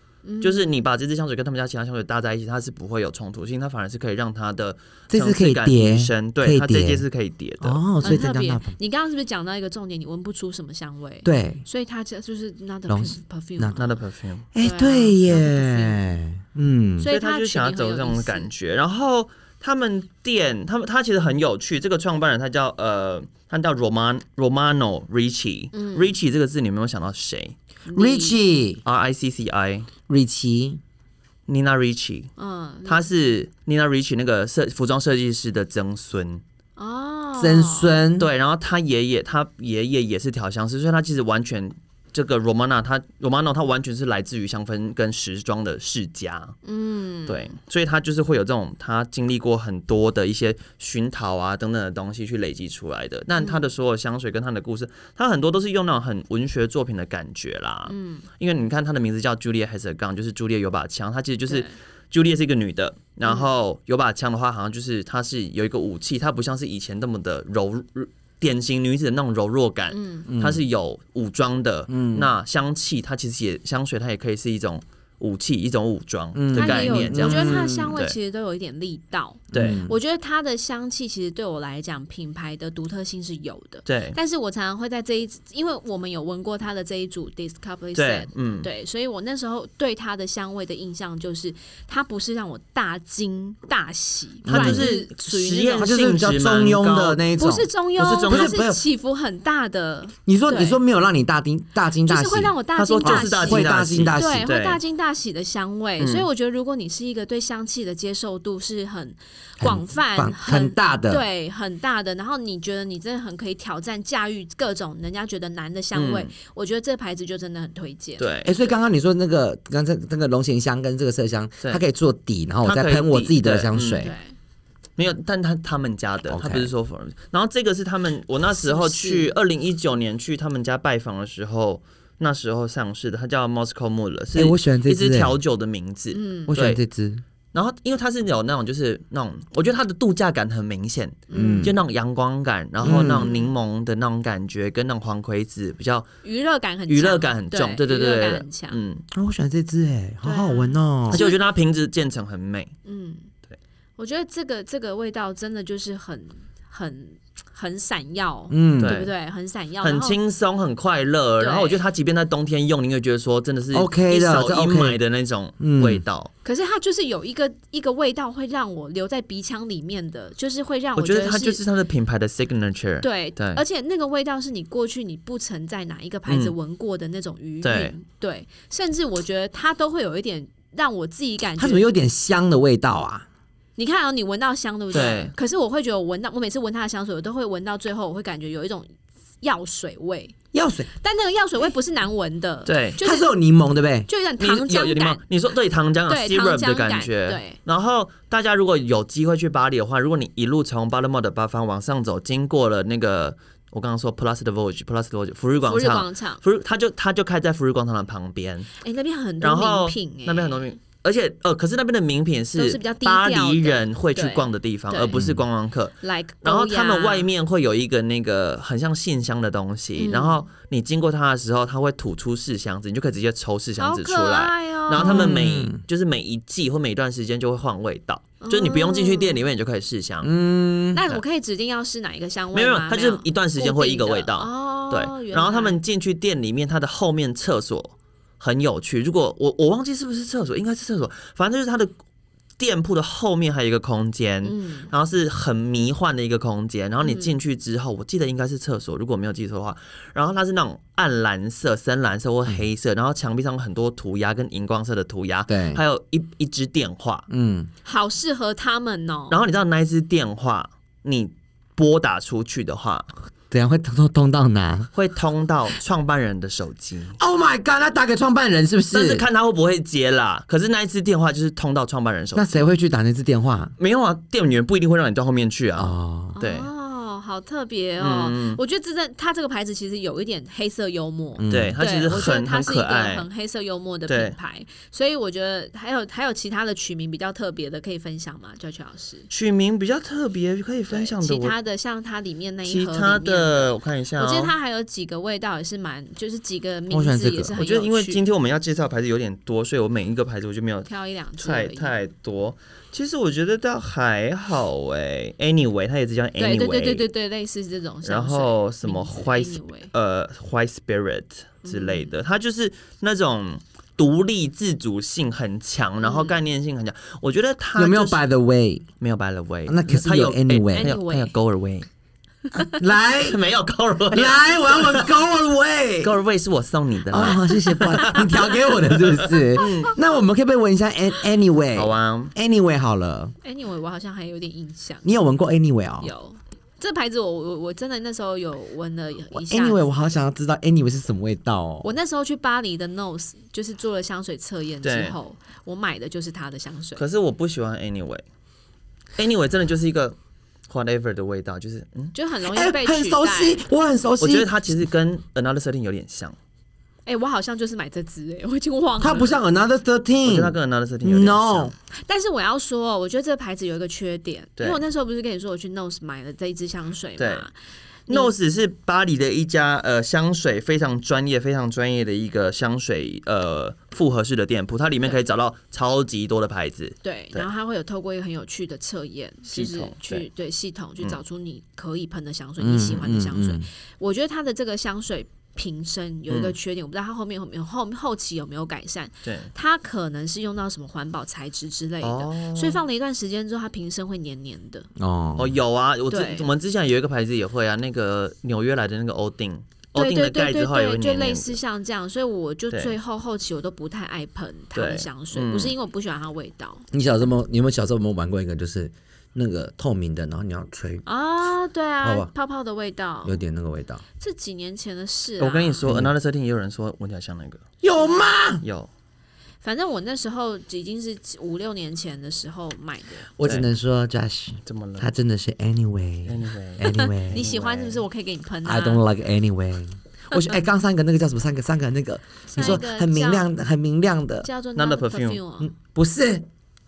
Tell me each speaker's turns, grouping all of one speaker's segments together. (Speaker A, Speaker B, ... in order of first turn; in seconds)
Speaker A: 0.2-0.7, 8.0-14.0, 14.6-16.1, 17.0-18.5, 25.7-26.1, 27.9-28.4, 32.4-33.1, 36.8-37.9, 46.6-47.5, 53.4-53.7, 57.9-58.2, 61.5-61.8, 69.9-70.3, 76.5-96.0, 97.4-100.8, 102.0-118.3, 124.0-124.3, 128.5-129.3, 136.1-136.6, 141.3-141.7, 142.9-143.5, 146.2-148.8, 150.2-151.4, 152.8-153.3, 154.0-160.2, 161.4-161.8, 166.4-171.6, 173.0-181.8, 183.8-190.3, 191.0-193.3, 194.1-195.2, 196.1-197.6, 205.6-206.4, 208.8-210.7, 212.5-215.2, 216.0-217.3, 220.0-220.5, 223.8-225.4, 228.4-229.4, 230.9-235.8, 244.4-244.9, 247.0-247.3, 257.8-259.4, 276.4-289.3, 290.9-298.2, 300.9-302.0, 306.4-309.9, 311.6-312.1, 316.0-316.4, 320.8-321.3, 327.2-328.4, 329.6-329.9, 333.4-335.1, 336.0-339.8, 341.8-347.0, 352.1-353.6, 357.1-359.4, 362.0-367.5, 377.0-394.9, 396.1-396.5, 400.0-406.8, 411.0-413.4, 414.2-415.9, 419.6-423.3, 426.9-429.0, 432.5-433.5, 434.4-435.7
Speaker B: 0.4-8.2, 13.8-14.5, 17.1-27.5, 28.8-29.9, 31.5-32.3, 32.8-36.4, 38.2-46.6, 47.3-78.2, 79.5-79.8, 83.9-84.2, 88.0-88.7, 94.5-97.2, 98.0-98.6, 102.8-104.8, 106.0-106.2, 115.9-116.3, 118.2-118.5, 122.6-124.1, 125.0-136.8, 137.5-146.1, 146.9-149.0, 151.1-152.7, 158.8-159.1, 159.8-166.3, 171.0-173.6, 176.3-176.5, 177.6-177.9, 184.9-185.3, 192.7-193.0, 194.4-208.7, 209.4-230.3, 232.5-241.9, 242.6-257.2, 259.3-263.1, 264.9-267.2, 268.9-272.6, 273.8-276.7, 278.0-278.6, 281.5-283.3, 284.1-284.3, 289.3-291.5, 292.6-294.5, 297.6-307.1, 308.0-318.2, 319.0-321.9, 323.2-325.1, 326.0-329.9, 331.8-332.3, 344.8-345.2, 347.0-348.2, 349.1-350.1, 350.7-352.1, 354.2-356.4, 360.2-361.7, 367.2-367.5, 368.1-377.5, 379.5-380.2, 386.3-386.6, 389.2-389.5, 392.0-392.8, 395.4-401.6, 404.8-405.7, 415.4-417.6, 418.6-418.9, 424.6-425.1, 426.2-428.0, 434.8-435.4
Speaker C: 5.1-7.0, 7.6-8.7, 11.2-11.6, 12.9-13.8, 14.5-17.1, 27.9-28.8, 30.1-30.8, 37.4-38.3, 70.3-70.6, 71.9-72.3, 76.3-78.0, 79.5-80.0, 94.5-94.9, 95.8-98.8, 100.2-104.5, 109.6-111.2, 118.5-124.1, 126.3-126.7, 134.3-135.4, 136.5-137.2, 141.3-141.8, 142.8-143.3, 149.1-151.2, 158.5-159.0, 163.7-165.0, 165.6-166.0, 181.6-183.2, 190.5-190.9, 193.0-194.1, 215.1-215.4, 224.9-225.8, 230.2-231.0, 255.5-255.8, 257.3-257.7, 263.5-264.9, 267.2-269.2, 272.3-273.7, 275.8-276.4, 281.4-281.8, 296.9-297.6, 317.8-318.9, 319.7-320.9, 322.6-323.4, 324.1-326.2, 327.1-333.3, 335.0-336.1, 339.3-341.9, 352.5-354.6, 359.0-361.7, 382.6-383.7, 395.0-395.6, 406.9-411.0, 412.0-412.3, 413.2-414.0, 415.9-416.1, 417.8-418.6, 423.4-427.4, 428.6-434.5, 435.6-436.4